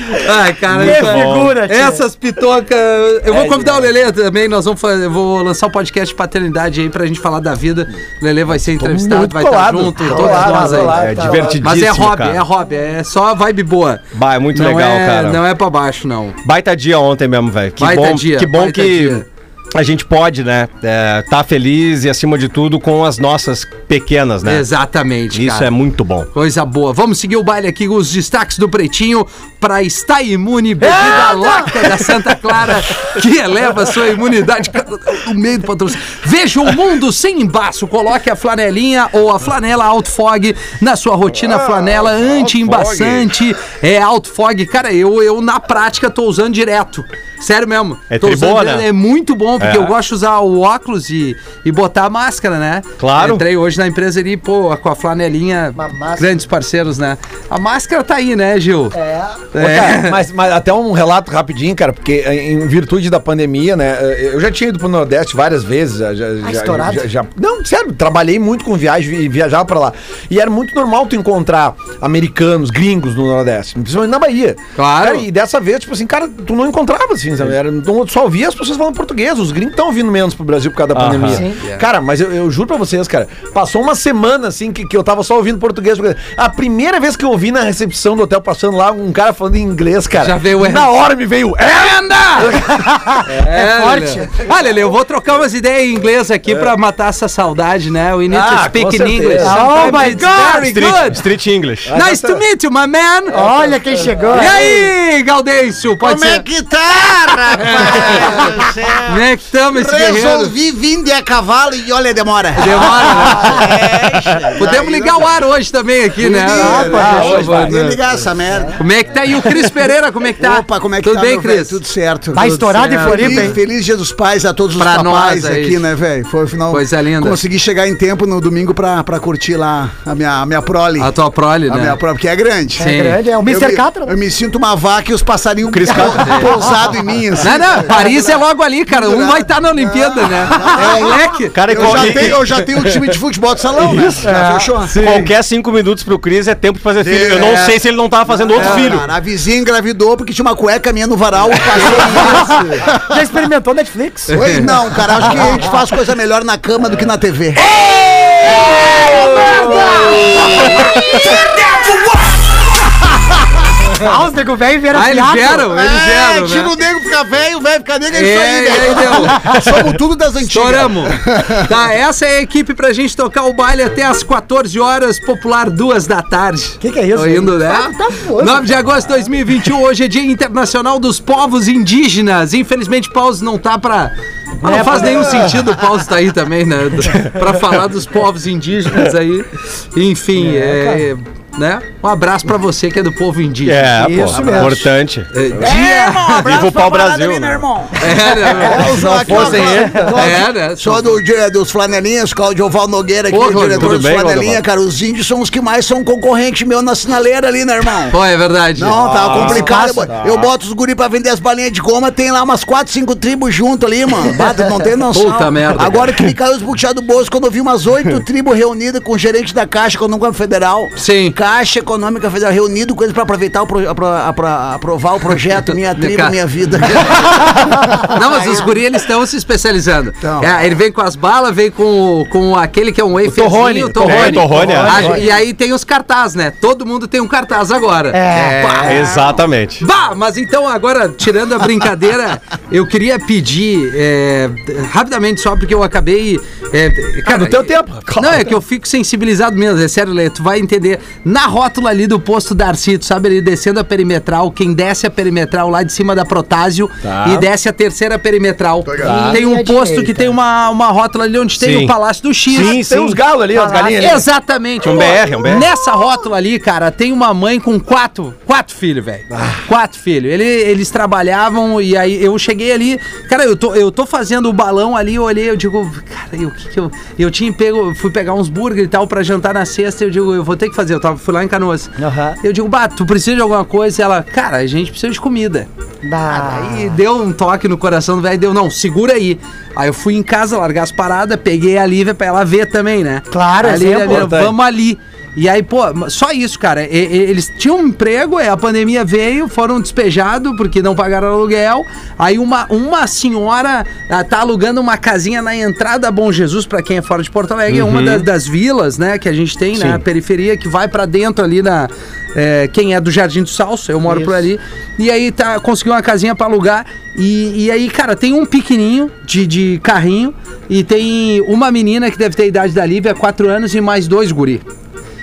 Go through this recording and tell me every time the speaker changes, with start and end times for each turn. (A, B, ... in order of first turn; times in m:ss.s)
0:00.2-0:11.0 A
0:00.7-0:02.0 B
0:00.7-0:01.6 C
0:03.3-0:03.9 D
0:08.6-0:11.7 D
0:10.0-0:11.5 B
0:10.8-0:12.4 C
0:11.6-0:14.0 A
0:14.1-0:15.4 C
0:14.5-0:16.4 A
0:16.4-0:24.7 C
0:17.8-0:19.2 A
0:24.4-0:25.7 A
0:25.3-0:26.3 C
0:26.3-0:59.0 A
0:30.8-0:31.8 B
0:41.5-0:43.2 D
0:48.1-0:48.9 C
0:49.6-0:49.9 C
0:53.0-0:53.4 C
0:55.8-0:56.3 B
0:58.9-0:59.5 B
0:59.5-1:00.2 A
0:59.6-1:33.4 D
1:06.4-1:07.0 B
1:14.8-1:15.3 A
1:20.9-1:21.4 C
1:21.3-1:21.6 B
1:21.6-1:21.9 A
1:30.2-1:31.0 A
1:31.6-1:32.6 A
1:32.8-1:34.3 B
1:33.4-1:41.2 A
1:38.3-1:40.4 D
1:39.4-1:40.8 B
1:40.7-1:41.9 C
1:41.8-1:42.4 D
1:41.9-1:43.4 A
1:43.3-1:44.9 B
1:43.3-1:44.2 D
1:44.3-1:46.4 A
1:46.0-1:55.3 E
1:47.6-1:48.5 A
1:49.1-1:50.6 A
1:52.6-1:53.7 A
1:54.6-1:58.0 A
1:56.2-1:58.8 E
1:56.5-1:57.8 B
1:58.8-2:01.8 A
2:00.4-2:11.2 E
2:02.3-2:03.6 B
2:02.4-2:03.6 A
2:04.8-2:05.8 A
2:06.7-2:07.4 A
2:11.0-2:12.0 A
2:11.7-2:12.8 E
2:12.8-2:14.2 B
2:12.8-2:13.2 A
2:13.4-2:25.3 E
2:15.7-2:16.7 C
2:17.4-2:22.4 A
2:21.5-2:23.2 C
2:23.8-2:24.3 C
2:24.2-2:24.9 B
2:24.9-2:29.1 C
2:27.0-2:33.0 E
2:31.9-2:34.7 B
2:32.4-2:32.8 A
2:34.3-2:34.7 A
2:34.3-2:37.8 E
2:35.2-2:35.7 B
2:38.4-2:42.6 E
2:38.9-2:40.6 B
2:43.9-2:45.7 B
2:44.9-2:46.7 A
2:45.7-2:51.6 E
2:48.1-2:49.5 A
2:50.4-3:14.0 A
2:56.8-2:58.7 B
3:04.6-3:05.6 B
3:10.4-3:11.0 B
3:13.7-3:15.8 C
3:14.0-3:14.8 B
3:14.3-3:14.8 E
3:15.3-3:16.4 A
3:15.6-3:28.2 E
3:16.3-3:17.7 C
3:18.0-3:19.6 A
3:18.8-3:20.2 D
3:18.9-3:20.2 B
3:20.1-3:21.2 A
3:23.3-3:24.1 A
3:23.7-3:24.6 C
3:28.1-3:29.0 A
3:28.8-3:48.7 E
3:29.0-3:30.5 D
3:29.2-3:29.7 C
3:29.5-3:30.0 B
3:35.1-3:36.1 A
3:41.0-3:41.4 A
3:46.0-3:46.4 A
3:47.2-4:22.8 A
3:50.2-3:50.5 E
3:53.2-3:55.2 D
3:54.0-3:55.2 C
3:54.6-3:55.2 B
3:58.1-3:59.0 B
3:58.3-3:59.0 E
3:58.8-3:59.8 C
4:07.2-4:08.6 D
4:17.0-4:17.5 D
4:18.9-4:19.4 E
4:19.0-4:20.3 B
4:21.6-4:21.9 C
4:22.5-4:23.2 C
4:22.5-4:24.3 D
4:23.5-4:24.2 B
4:24.0-4:45.7 A
4:24.8-4:25.7 C
4:42.0-4:42.4 B
4:46.0-4:47.0 B
4:46.3-4:46.6 E
4:46.5-5:24.6 A
4:53.3-4:54.3 B
4:54.1-4:54.5 D
5:07.7-5:08.3 C